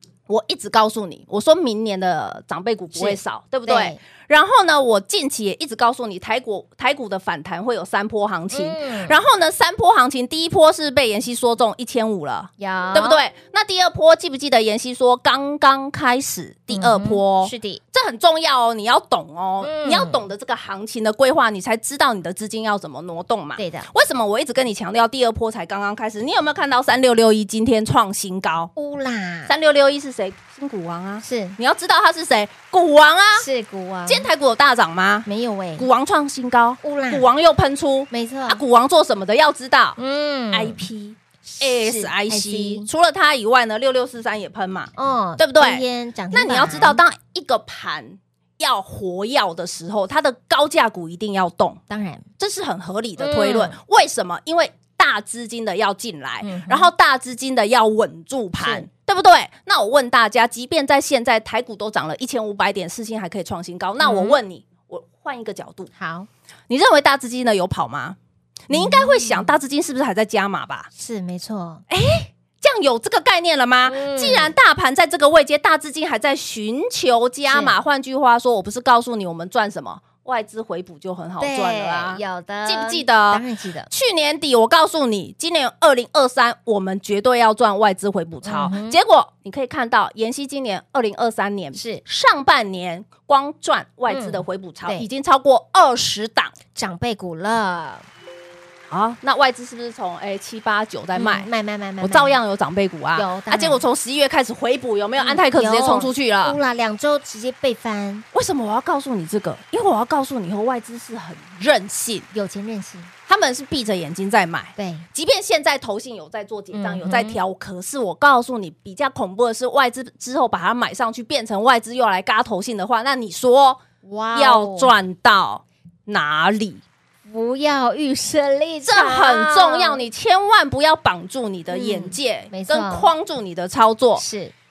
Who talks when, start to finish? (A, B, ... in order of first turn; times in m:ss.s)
0:00.3-0:28.7 A
0:03.0-0:04.0 B
0:08.5-0:09.2 B
0:12.6-0:13.2 B
0:16.7-0:17.8 B
0:19.6-0:20.2 B
0:23.6-0:23.9 B
0:28.8-0:29.5 B
0:29.5-0:33.5 A
0:31.2-0:31.6 B
0:33.4-0:34.3 B
0:34.1-0:40.0 A
0:35.3-0:35.9 B
0:36.8-0:37.3 B
0:38.1-0:38.6 B
0:40.0-0:40.8 B
0:40.5-0:51.8 A
0:41.4-0:42.9 B
0:45.0-0:47.0 B
0:51.9-0:52.3 B
0:52.4-1:05.9 A
0:53.2-0:53.8 B
0:56.4-0:56.9 B
0:58.6-0:58.9 B
1:04.0-1:04.4 B
1:06.0-1:06.3 B
1:06.7-1:08.2 A
1:08.7-1:10.9 A
1:08.7-1:09.5 B
1:11.0-1:11.8 B
1:11.9-1:36.5 A
1:13.8-1:14.5 B
1:17.5-1:17.8 B
1:21.4-1:23.9 B
1:28.4-1:29.0 B
1:31.7-1:32.0 B
1:34.1-1:35.1 B
1:36.8-1:38.1 B
1:38.9-1:41.5 A
1:41.2-1:42.4 B
1:42.0-1:46.6 A
1:43.2-1:43.8 B
1:45.2-1:48.3 B
1:48.3-1:52.3 A
1:52.3-1:53.1 B
1:53.3-2:03.8 A
1:54.8-1:55.1 B
1:56.7-1:57.4 B
2:04.0-2:04.9 B
2:04.3-2:06.8 A
2:07.3-2:10.0 B
2:08.8-2:14.2 A
2:11.7-2:13.1 B
2:14.2-2:14.5 B